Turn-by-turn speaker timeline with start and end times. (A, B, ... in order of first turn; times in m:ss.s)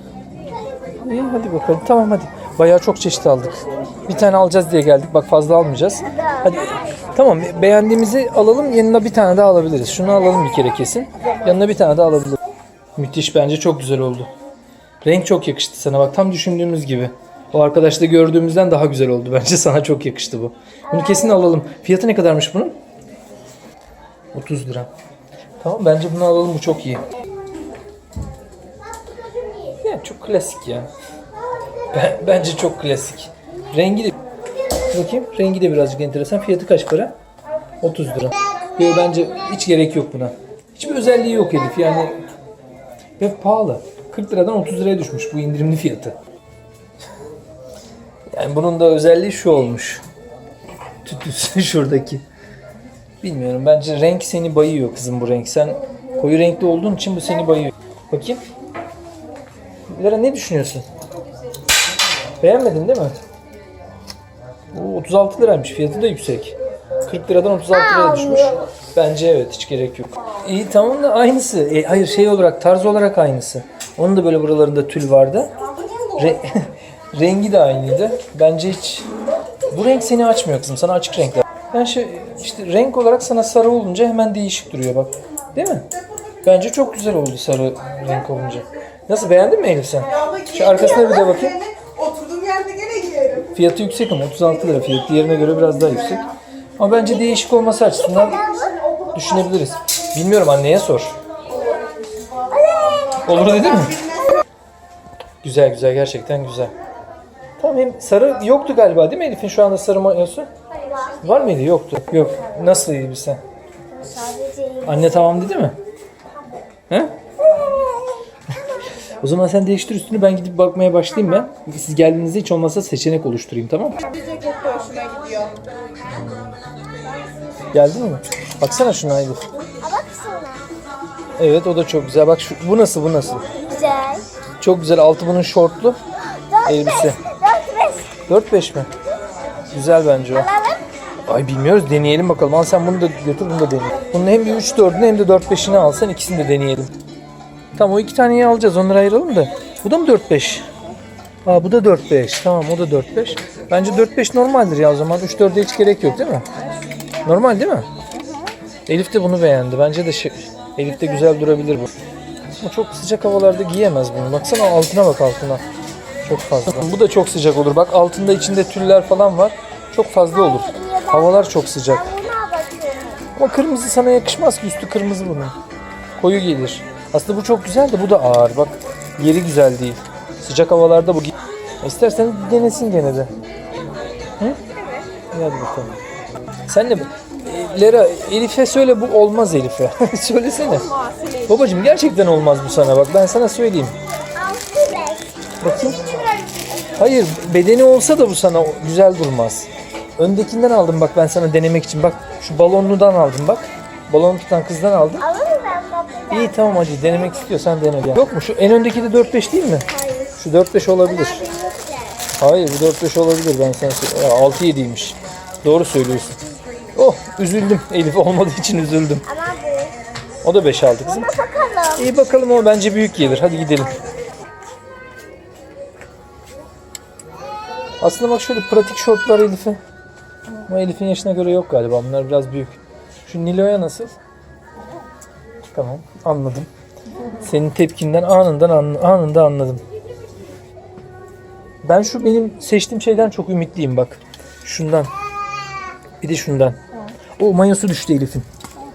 0:01.0-0:12.4 A
0:06.1-0:06.8 B
0:13.0-0:14.3 A
0:15.0-0:22.8 A
0:20.9-0:21.4 B
0:24.3-0:24.9 A
0:25.6-0:27.0 A
0:29.0-0:29.8 B
0:29.8-0:30.9 A
0:31.9-0:34.2 A
0:34.9-0:37.1 A
0:37.8-0:42.2 A
0:43.2-0:46.2 A
0:48.3-0:50.0 A
0:51.0-0:52.2 A
0:53.2-0:58.4 A
0:59.9-1:00.8 A
1:02.4-1:03.2 A
1:04.7-1:15.5 A
1:08.0-1:08.5 B
1:16.1-1:19.1 A
1:19.7-1:25.9 A
1:26.4-1:31.6 A
1:32.0-1:33.4 C
1:33.5-1:38.4 A
1:38.3-1:38.8 B
1:39.1-1:41.2 A
1:42.5-1:43.4 B
1:43.2-1:44.0 A
1:43.9-1:44.4 B
1:45.4-1:46.7 A
1:47.6-1:50.5 A
1:50.8-1:51.3 B
1:51.2-1:53.4 A
1:53.9-1:55.4 B
1:54.8-1:55.8 A
1:56.9-1:57.1 A
1:57.4-1:58.2 B
1:59.2-2:04.0 A
2:04.1-2:05.5 C
2:06.1-2:06.6 A
2:07.7-2:09.4 A
2:09.8-2:10.7 B
2:11.4-2:13.4 A
2:13.6-2:14.2 B
2:14.6-2:16.0 A
2:16.5-2:18.2 B
2:16.6-2:17.2 A
2:18.3-2:18.9 A
2:19.7-2:20.5 A
2:20.3-2:20.8 B
2:21.2-2:26.9 A
2:27.7-2:30.7 A
2:31.4-2:36.5 A
2:37.2-2:37.9 A
2:38.1-2:38.5 C
2:38.9-2:41.9 A
2:42.6-2:45.6 A
2:46.2-2:52.1 A
2:50.3-2:53.3 B
2:53.4-2:55.5 A
2:56.2-3:03.3 A
3:05.3-3:06.0 A
3:06.7-3:10.9 A
3:11.0-3:11.4 C
3:11.4-3:13.9 A
3:14.3-3:15.5 B
3:15.6-3:16.0 A
3:17.0-3:25.2 A
3:25.2-3:26.6 B
3:26.3-3:31.5 A
3:29.9-3:30.4 B
3:31.0-3:32.3 B
3:32.4-3:36.4 A
3:36.9-3:39.2 A
3:39.2-3:40.0 B
3:40.4-3:41.3 A
3:41.0-3:42.1 B
3:42.0-3:44.0 A
3:48.0-3:49.8 A
3:50.6-3:54.2 A
3:55.7-3:56.7 A
3:57.4-3:59.8 A
4:01.8-4:05.1 A
4:06.2-4:06.8 A
4:07.4-4:08.4 A